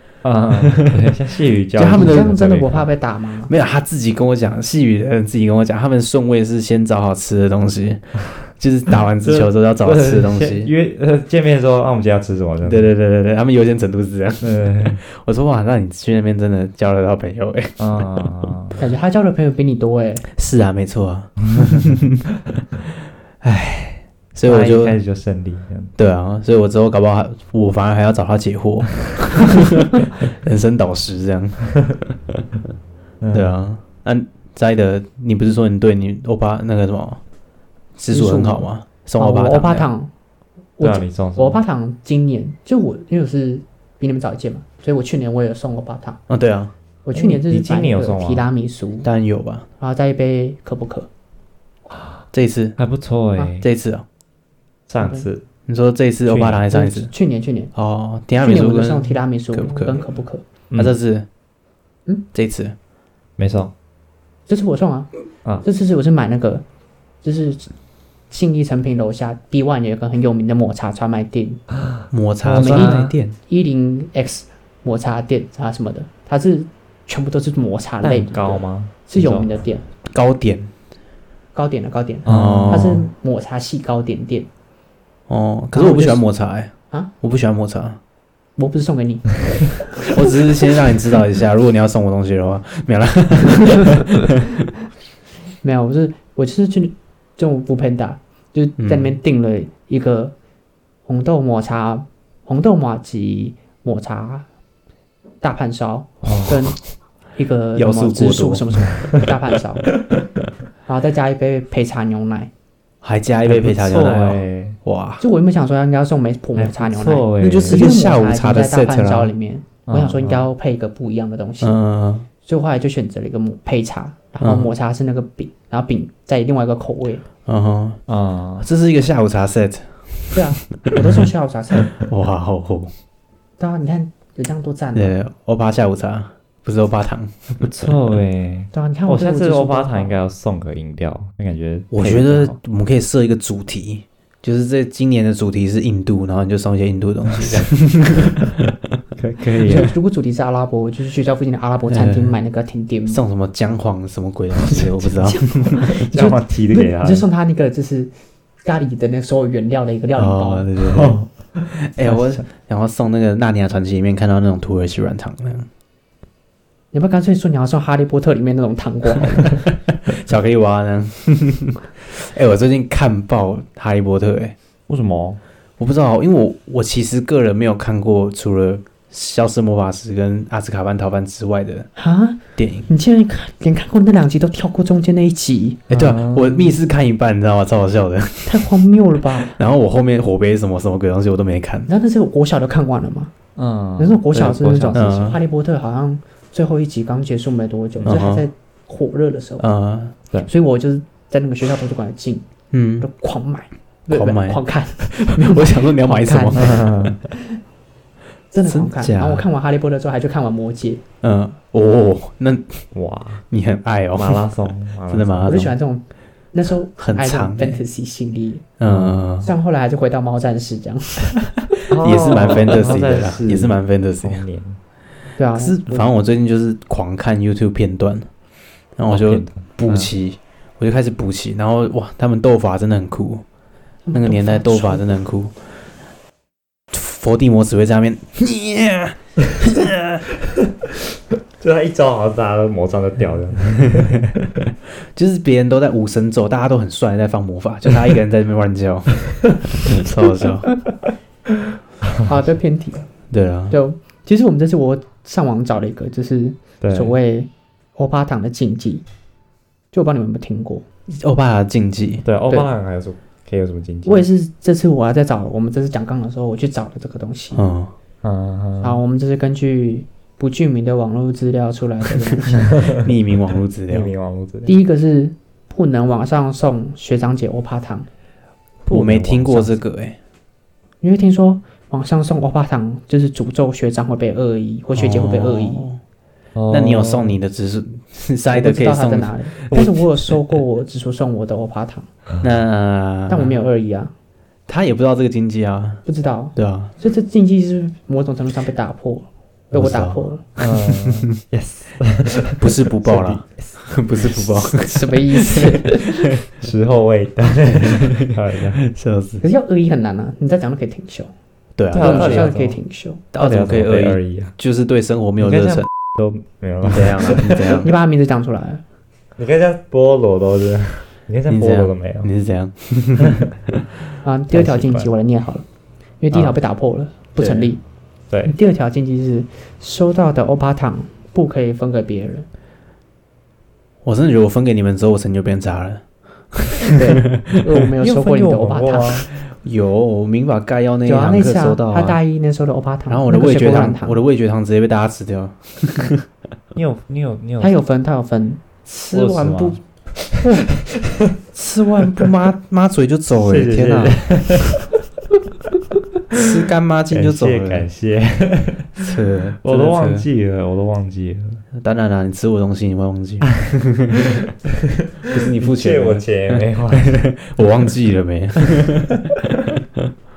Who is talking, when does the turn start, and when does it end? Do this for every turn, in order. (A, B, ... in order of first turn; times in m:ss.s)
0:00.2-0:02.9 A
0:00.5-0:01.1 B
0:01.8-0:02.3 B
0:01.9-0:03.5 C
0:03.5-0:10.7 B
0:09.2-0:12.9 A
0:12.6-0:18.3 B
0:14.4-0:15.0 A
0:17.8-0:18.8 A
0:18.8-0:20.2 C
0:20.3-0:22.2 B
0:23.4-0:25.0 B
0:24.4-0:25.9 A
0:26.0-0:32.2 B
0:33.2-0:33.6 A
0:33.3-0:37.2 B
0:38.0-0:39.9 B
0:38.1-0:40.1 C
0:40.8-0:46.2 C
0:40.8-0:41.6 A
0:46.3-0:46.7 B
0:47.0-0:49.1 C
0:47.1-0:48.5 A
0:49.0-0:49.6 B
0:49.8-0:51.1 C
0:51.9-0:52.2 A
0:52.3-0:52.8 B
0:52.8-0:53.6 A
0:53.6-0:54.0 B
0:54.9-0:55.4 A
0:55.0-0:55.3 C
0:55.7-0:57.1 B
0:56.2-0:56.6 A
0:56.7-0:57.7 C
0:57.7-1:00.0 B
0:58.4-1:00.4 C
1:00.7-1:01.2 B
1:02.3-1:02.7 B
1:03.4-1:03.7 A
1:04.5-1:05.1 C
1:05.6-1:06.6 C
1:07.2-1:07.7 C
1:08.3-1:11.6 C
1:11.8-1:13.2 A
1:12.1-1:13.3 B
1:12.5-1:19.8 C
1:18.0-1:19.5 A
1:20.1-1:20.7 B
1:21.5-1:24.5 C
1:22.2-1:23.1 A
1:22.2-1:23.0 B
1:25.3-1:28.0 B
1:25.7-1:26.3 C
1:28.6-1:30.4 C
1:30.1-1:34.3 B
1:35.6-1:40.3 C
1:38.8-1:39.2 B
1:41.0-1:44.4 C
1:45.4-1:46.8 C
1:46.2-1:46.6 A
1:47.4-1:49.9 C
1:47.7-1:48.9 B
1:50.8-1:52.5 C
1:53.0-1:55.2 B
1:53.4-1:54.8 A
1:55.2-2:01.8 C
1:56.6-1:57.9 A
1:57.4-1:59.3 B
1:59.9-2:00.5 A
2:01.6-2:02.3 B
2:02.4-2:07.2 C
2:04.4-2:04.7 B
2:07.4-2:08.0 B
2:08.1-2:08.7 A
2:08.6-2:10.4 B
2:10.3-2:11.9 C
2:11.9-2:12.9 B
2:13.6-2:15.2 C
2:14.9-2:17.7 B
2:17.6-2:22.6 A
2:18.7-2:20.1 C
2:21.9-2:28.6 B
2:27.3-2:27.7 A
2:29.2-2:29.9 A
2:29.6-2:33.2 C
2:31.9-2:32.4 B
2:33.1-2:35.8 B
2:34.7-2:38.1 C
2:35.8-2:37.2 A
2:38.6-2:40.6 C
2:40.2-2:41.2 B
2:40.8-2:42.4 A
2:41.8-2:45.7 B
2:46.9-2:49.6 C
2:50.1-2:54.5 B
2:54.9-2:55.4 A
2:55.8-3:01.9 B
3:02.0-3:05.8 C
3:02.6-3:02.9 B
3:05.9-3:08.7 B
3:05.9-3:06.8 A
3:08.4-3:09.6 C
3:09.4-3:11.9 B
3:11.9-3:13.3 C
3:13.6-3:15.4 A
3:14.0-3:19.7 C
3:14.9-3:15.4 B
3:18.0-3:18.4 B
3:19.6-3:20.1 B
3:20.4-3:22.4 C
3:22.7-3:23.1 B
3:23.0-3:26.8 C
3:24.1-3:27.2 B
3:26.5-3:27.2 A
3:28.5-3:31.0 C
3:28.6-3:29.4 B
3:31.2-3:32.8 B
3:32.9-3:33.4 A
3:33.5-3:34.5 B
3:34.1-3:35.6 A
3:35.1-3:35.7 B
3:35.5-3:38.6 C
3:37.0-3:37.8 B
3:38.8-3:39.5 B
3:38.8-3:39.3 A
3:39.4-3:41.5 C
3:41.9-3:44.8 A
3:42.0-3:44.4 B
3:42.1-3:43.0 C
3:45.4-3:46.1 C
3:45.5-3:48.3 B
3:49.0-3:53.4 B
3:49.1-3:50.1 A
3:54.0-3:55.2 C
3:54.1-3:55.5 B
3:56.9-4:00.3 B
4:00.4-4:00.9 A
4:01.6-4:04.3 A
4:05.1-4:10.8 B
4:12.2-4:13.1 C
4:13.3-4:13.8 B
4:13.7-4:19.0 C
4:16.8-4:17.1 A
4:19.9-4:20.8 C
4:21.2-4:22.2 B
4:22.2-4:24.3 A
4:24.0-4:27.6 C
4:27.5-4:27.9 B
4:28.2-4:29.0 A
4:28.8-4:32.6 C
4:32.6-4:33.1 A
4:32.6-4:34.1 B
4:33.9-4:34.8 A
4:34.6-4:38.1 C
4:38.8-4:39.8 A
4:38.9-4:40.2 B
4:41.0-4:45.9 C
4:44.9-4:46.0 B
4:46.5-4:47.4 A
4:46.7-4:49.9 B
4:48.5-4:52.1 C
4:52.4-4:53.5 B
4:53.3-4:54.1 C
4:54.7-4:56.0 B
4:56.0-5:00.4 C
4:56.5-4:56.9 B
4:59.7-5:01.2 B
5:00.6-5:03.8 A
5:02.5-5:05.9 B
5:04.8-5:06.2 C
5:06.5-5:08.8 A
5:07.7-5:08.3 B
5:08.9-5:09.4 B
5:09.4-5:11.3 C
5:11.8-5:12.5 B
5:11.9-5:12.8 A
5:11.9-5:13.2 C
5:13.3-5:15.9 B
5:13.3-5:14.6 A
5:15.4-5:17.7 A
5:16.8-5:17.9 B
5:17.6-5:18.8 C
5:19.4-5:22.3 A
5:21.5-5:23.6 B
5:24.2-5:25.6 C
5:24.5-5:25.1 A
5:26.2-5:27.8 C
5:27.4-5:27.7 B
5:28.4-5:32.4 C
5:34.0-5:37.6 B
5:36.9-5:39.3 C
5:38.0-5:39.3 A
5:39.5-5:42.2 B
5:41.0-5:44.2 C
5:43.1-5:46.2 B
5:46.7-5:47.7 A
5:47.6-5:49.8 C
5:49.1-5:49.8 A
5:50.3-5:51.3 A
5:51.5-5:54.2 B
5:53.4-5:54.9 A
5:56.3-5:57.9 B
5:57.1-5:59.0 A
5:59.0-6:00.3 B
5:59.6-6:01.6 A
6:01.7-6:04.5 B
6:04.1-6:07.2 A
6:05.3-6:09.3 B
6:08.7-6:09.7 A